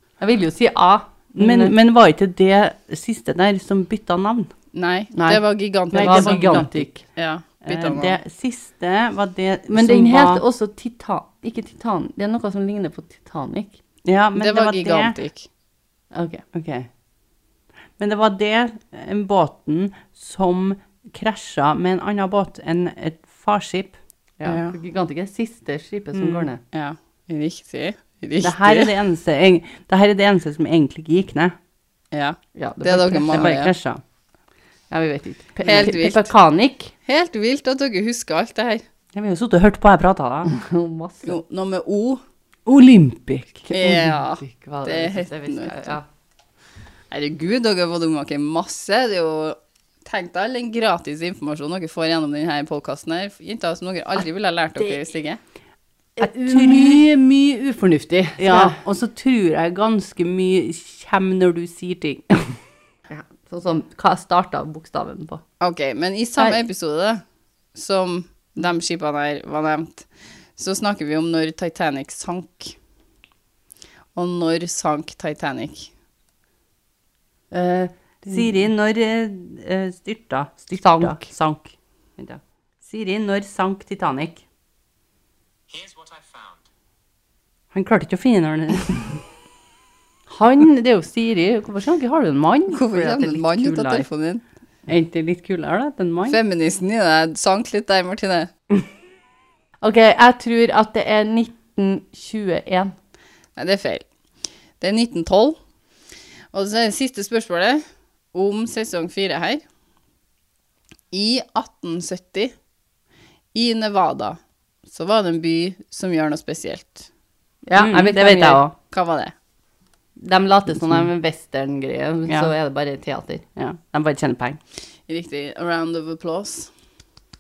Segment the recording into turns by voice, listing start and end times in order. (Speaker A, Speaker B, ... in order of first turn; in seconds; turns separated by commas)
Speaker A: 0.2-1.7, Speaker B: 1.4-4.5, Speaker C: 4.7-8.2, Speaker A: 5.2-7.0, Speaker B: 5.9-6.9, Speaker B: 7.7-10.4, Speaker A: 9.7-13.8, Speaker B: 14.1-15.2, Speaker C: 14.4-15.5, Speaker A: 16.1-16.4, Speaker B: 16.5-16.9, Speaker B: 18.0-24.0, Speaker A: 24.4-26.6, Speaker C: 24.4-24.8, Speaker B: 26.1-26.5, Speaker C: 26.7-28.9, Speaker B: 28.4-31.6, Speaker C: 32.1-33.7, Speaker A: 32.6-33.5, Speaker B: 33.2-34.0, Speaker A: 34.9-36.9, Speaker C: 35.6-36.3, Speaker C: 37.1-38.9, Speaker B: 39.1-40.6, Speaker A: 40.5-41.4, Speaker C: 41.2-42.2, Speaker B: 42.7-43.7, Speaker C: 43.7-46.0, Speaker A: 43.7-46.0, Speaker C: 47.1-55.4, Speaker A: 56.2-58.8, Speaker B: 56.2-57.0, Speaker B: 58.4-62.6, Speaker A: 63.1-65.4, Speaker C: 65.6-67.2, Speaker C: 67.7-72.8, Speaker C: 74.2-75.9, Speaker A: 77.5-78.5, Speaker B: 78.3-84.4, Speaker A: 80.7-81.3, Speaker B: 87.7-89.2, Speaker A: 90.3-92.9, Speaker C: 92.7-94.4, Speaker B: 93.0-94.1, Speaker B: 94.9-96.4, Speaker C: 96.3-98.5, Speaker A: 99.8-102.9, Speaker C: 103.6-104.1, Speaker C: 104.8-105.6, Speaker C: 106.5-109.6, Speaker C: 111.1-112.5, Speaker C: 113.5-117.1, Speaker A: 117.7-118.6, Speaker B: 117.8-118.8, Speaker C: 118.9-119.3, Speaker A: 120.2-123.5, Speaker B: 122.3-122.5, Speaker B: 123.6-124.6, Speaker C: 125.1-126.7